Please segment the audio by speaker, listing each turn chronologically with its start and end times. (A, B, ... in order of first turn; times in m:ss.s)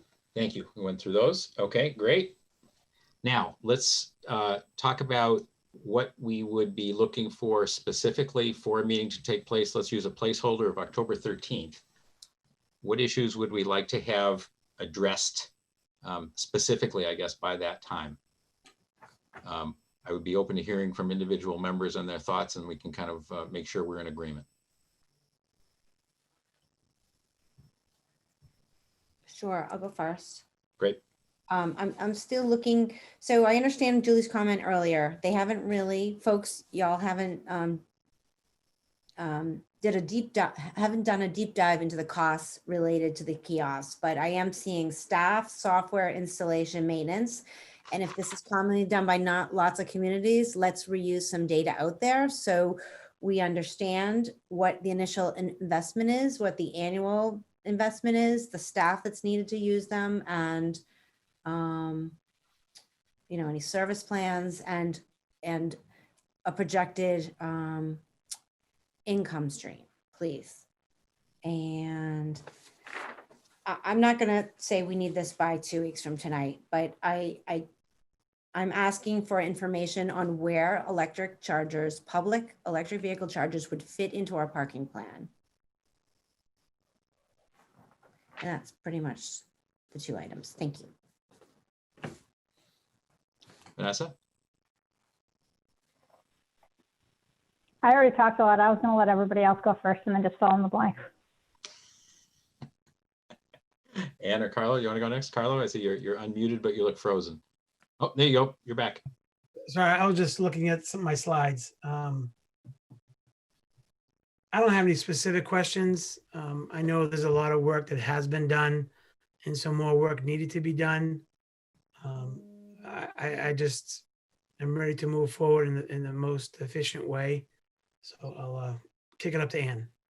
0:00.3-0:02.4 A
0:03.2-0:11.8 A
0:12.8-0:15.5 A
0:16.0-0:18.2 A
0:19.4-0:24.4 A
0:29.3-0:30.4 B
0:31.5-0:37.8 B
0:39.2-1:00.8 B
1:01.4-1:02.2 B
1:03.3-1:05.8 B
1:06.4-1:08.0 B
1:09.1-1:10.6 B
1:11.4-1:12.4 B
1:13.6-1:17.6 B
1:18.5-1:25.3 B
1:28.4-1:30.9 B
1:33.8-1:34.1 A
1:37.8-1:41.0 C
1:44.2-1:47.4 A
1:48.0-1:49.0 A
1:49.7-1:52.3 D
1:54.5-1:58.9 D
1:59.4-2:01.2 D
2:02.0-2:04.0 D
2:04.6-2:07.4 D
2:08.0-2:09.9 D